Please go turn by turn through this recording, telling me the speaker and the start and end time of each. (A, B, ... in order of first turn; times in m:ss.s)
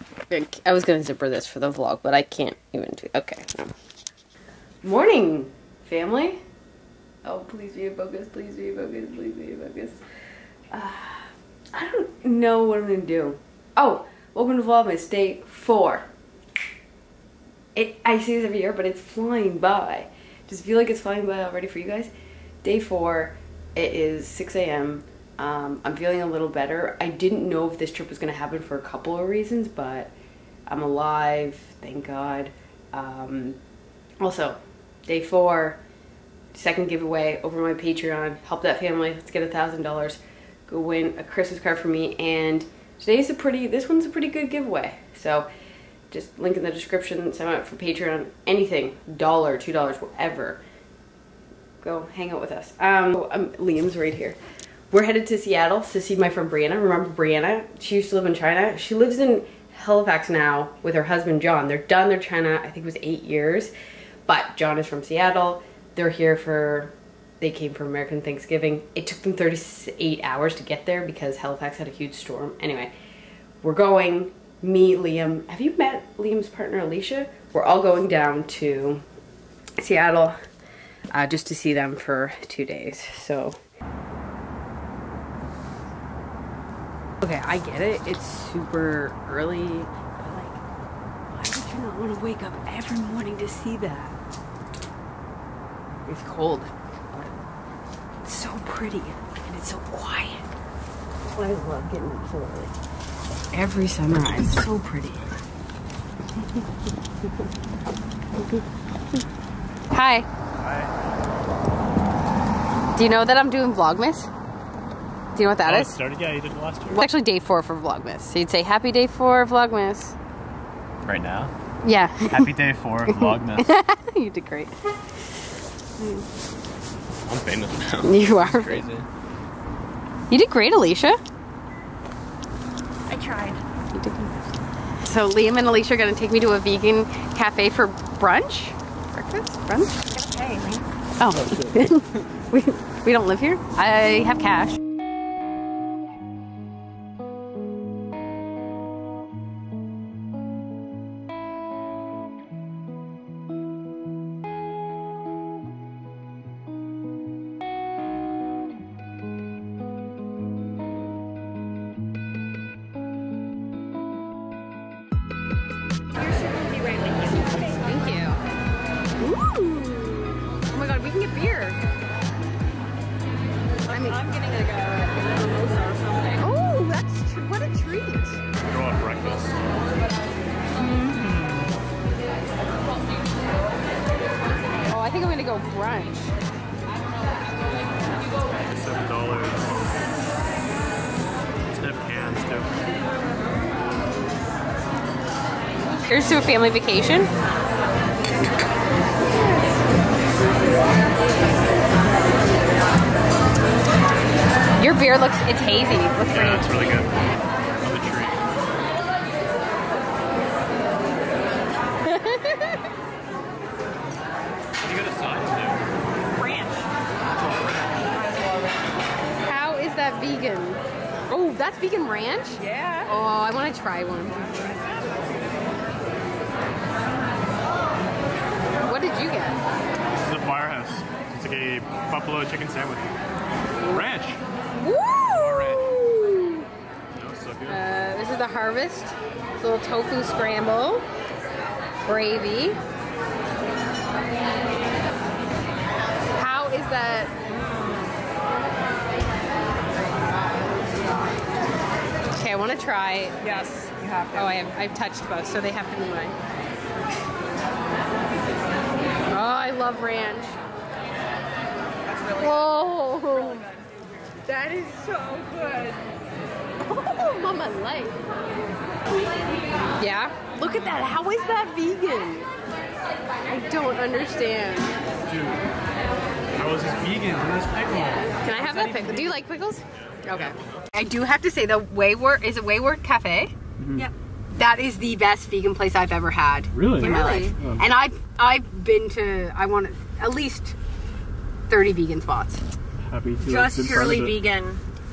0:00.3-0:03.7 A
0:04.8-0:06.4 A
0:07.2-0:10.0 A
0:10.7-0:16.0 A
0:17.7-0:22.1 A
0:22.6-0:30.1 A
0:30.7-0:33.6 A
0:34.2-0:35.8 A
0:36.5-0:45.5 A
0:46.1-0:50.6 A
0:51.8-0:54.4 A
0:54.9-1:03.7 A
1:04.3-1:12.9 A
1:13.6-1:19.0 A
1:19.8-1:20.4 A
1:21.1-1:23.6 A
1:27.2-1:30.6 A
1:31.3-1:34.2 A
1:36.0-1:37.3 A
1:38.2-1:40.5 A
1:41.2-1:42.7 A
1:43.5-1:45.3 A
1:49.9-1:50.3 A
1:50.6-1:50.9 B
1:52.9-1:54.3 A
1:55.3-1:56.0 A
1:55.6-1:57.1 B
1:56.9-2:00.2 A
2:01.0-2:01.5 B
2:01.8-2:04.7 A
2:02.2-2:03.7 B
2:06.0-2:06.2 A
2:07.3-2:09.0 B
2:08.0-2:08.9 A
2:10.3-2:11.2 A
2:13.1-2:13.6 C
2:13.9-2:14.4 A
2:15.0-2:20.1 A
2:20.1-2:20.8 C
2:21.2-2:24.8 A
2:46.2-2:47.9 C
2:47.6-2:48.4 A
2:49.2-2:51.8 A
2:53.9-2:54.2 A
2:53.9-2:56.4 C
2:56.4-2:58.4 A
2:58.7-2:59.7 B
3:00.8-3:01.2 A
3:01.0-3:01.7 B
3:04.8-3:06.3 A
3:08.7-3:09.9 B
3:11.7-3:12.8 B
3:16.0-3:17.3 A
3:24.8-3:27.0 A
3:26.3-3:27.2 B
3:27.8-3:28.4 B
3:32.0-3:32.9 A
3:34.8-3:35.9 B
3:36.4-3:36.9 C
3:37.4-3:37.9 B
3:39.4-3:44.8 A
3:42.6-3:43.1 C
3:48.8-3:49.6 A
3:50.1-3:53.2 B
3:53.9-3:54.4 B
3:54.8-3:56.7 A
3:55.3-3:56.0 B
3:57.1-3:57.8 B
3:57.6-4:01.0 A
4:02.0-4:02.8 A
4:06.3-4:07.5 A
4:12.3-4:13.5 A
4:13.4-4:14.2 C
4:14.3-4:16.4 A
4:19.3-4:20.6 A
4:22.2-4:23.8 A
4:24.4-4:26.0 A
4:26.8-4:28.2 A
4:30.0-4:32.5 A
4:33.5-4:35.0 A
4:35.2-4:35.6 B
4:36.6-4:39.3 B
4:38.4-4:43.5 A
4:43.8-4:44.1 B
4:44.5-4:50.8 A
4:46.7-4:47.8 B
4:47.2-4:47.5 C
4:51.7-4:52.6 A
4:53.0-4:54.4 B
4:53.5-4:54.8 C